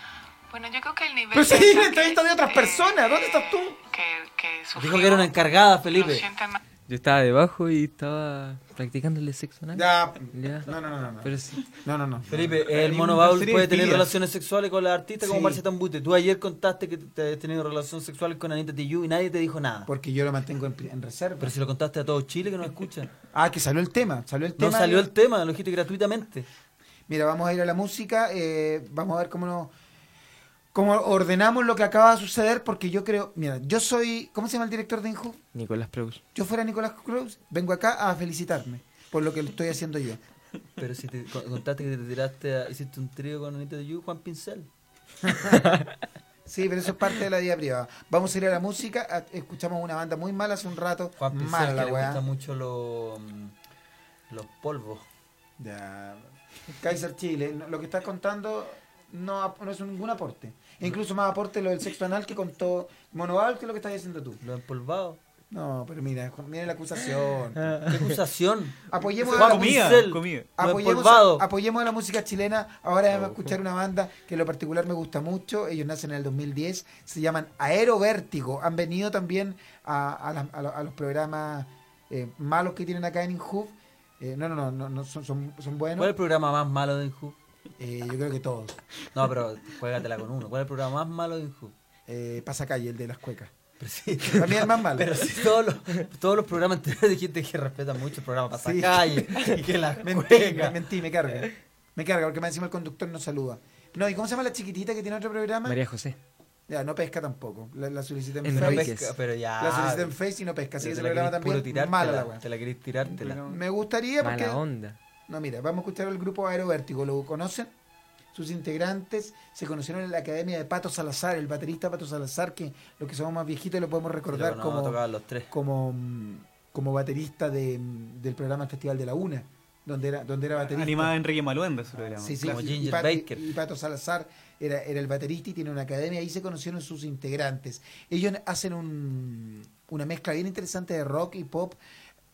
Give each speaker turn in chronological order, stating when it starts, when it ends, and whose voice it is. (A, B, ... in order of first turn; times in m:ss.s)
0:00.5-0:05.4 A
0:01.3-0:03.8 B
0:04.7-0:06.2 C
0:05.9-0:06.6 A
0:06.9-0:10.7 D
0:09.7-0:12.6 B
0:11.2-0:11.7 D
0:12.3-0:19.9 C
0:12.7-0:14.1 E
0:15.2-0:15.6 B
0:19.9-0:21.5 B
0:21.4-0:23.1 C
0:23.3-0:25.1 B
0:24.6-0:26.5 C
0:27.1-0:29.7 B
0:30.7-0:35.4 B
0:35.5-0:36.2 D
0:36.3-0:40.2 B
0:40.8-0:44.7 C
0:45.2-0:45.6 B
0:46.4-0:52.2 B
0:51.2-0:53.5 C
0:54.3-0:55.0 C
0:55.6-1:04.4 B
1:04.4-1:05.2 C
1:05.5-1:07.8 B
1:07.8-1:11.4 C
1:08.9-1:10.0 B
1:09.2-1:10.5 E
1:10.6-1:26.1 B
1:26.0-1:27.4 C
1:27.8-1:28.8 B
1:29.1-1:31.7 C
1:32.1-1:33.5 B
1:33.8-1:40.8 C
1:34.2-1:35.1 B
1:38.6-1:45.8 B
1:45.6-1:46.2 D
1:46.7-1:48.9 B
1:48.4-1:49.1 D
1:48.5-1:50.2 C
1:49.6-1:52.4 B
1:50.8-1:53.4 C
1:53.1-1:54.6 B
1:54.2-1:55.0 D
1:55.3-1:57.7 B
1:58.3-2:05.0 B
2:04.3-2:05.5 C
2:05.5-2:11.1 B
2:10.6-2:12.6 E
2:12.0-2:21.8 B
2:12.4-2:13.4 C